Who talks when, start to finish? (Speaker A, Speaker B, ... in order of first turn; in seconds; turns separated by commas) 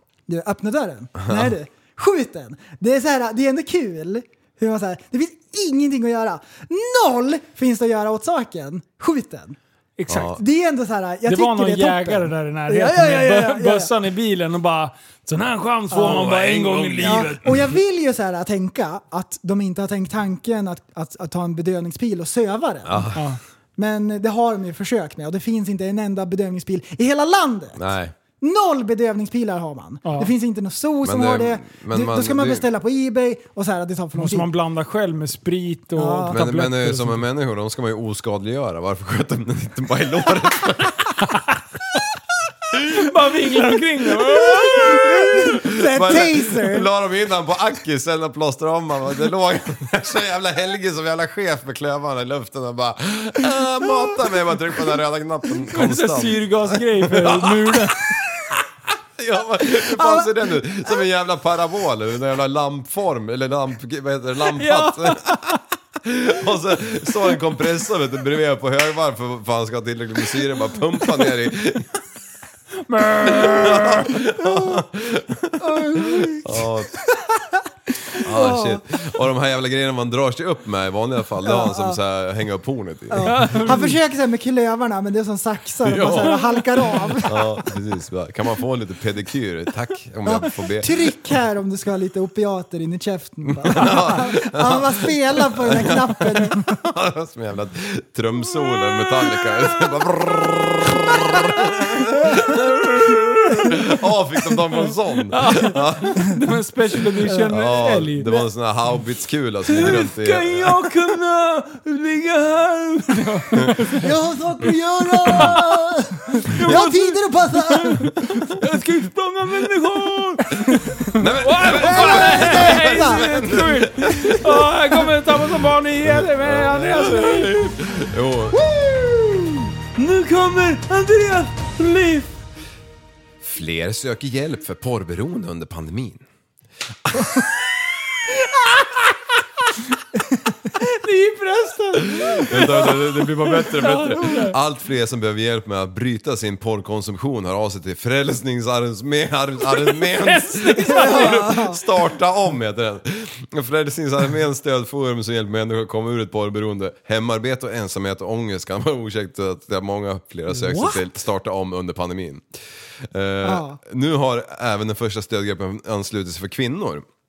Speaker A: 0.3-9.6, Speaker B: 1.2-1.5, Speaker C: 10.0-10.4, Speaker B: 10.1-10.4, Speaker A: 10.3-13.9, Speaker C: 11.3-17.7, Speaker A: 15.9-16.2, Speaker B: 16.0-17.4, Speaker A: 17.0-23.1, Speaker B: 22.9-23.3, Speaker C: 23.1-23.4, Speaker A: 23.8-27.8, Speaker B: 27.8-28.1, Speaker A: 28.4-34.5, Speaker C: 30.1-30.3, Speaker B: 31.0-32.6, Speaker C: 34.2-37.2, Speaker A: 36.0-36.4, Speaker B: 36.3-41.3, Speaker B: 42.7-43.0, Speaker C: 42.9-45.3, Speaker A: 44.6-46.9, Speaker B: 44.9-72.0, Speaker C: 55.7-58.2, Speaker A: 59.9-60.3, Speaker C: 64.5-65.6, Speaker C: 72.8-74.2, Speaker B: 73.2-77.0, Speaker A: 74.5-74.8, Speaker A: 75.6-78.8, Speaker B: 78.2-83.7, Speaker A: 81.4-82.0, Speaker A: 83.1-87.7, Speaker C: 83.2-84.0, Speaker B: 85.8-86.6, Speaker B: 87.2-91.0, Speaker A: 90.2-96.8, Speaker B: 93.5-106.4, Speaker C: 102.5-103.8, Speaker C: 105.3-108.3, Speaker B: 107.2-111.0, Speaker A: 107.3-107.5, Speaker C: 109.7-127.8, Speaker A: 114.0-118.6, Speaker B: 121.1-125.1, Speaker A: 121.7-123.6, Speaker B: 126.0-128.6, Speaker C: 129.9-132.3, Speaker B: 133.4-136.2, Speaker B: 137.1-137.5, Speaker C: 140.7-144.6, Speaker B: 142.1-167.1, Speaker C: 149.7-151.8, Speaker A: 150.9-151.8, Speaker C: 160.5-161.0, Speaker A: 163.4-163.8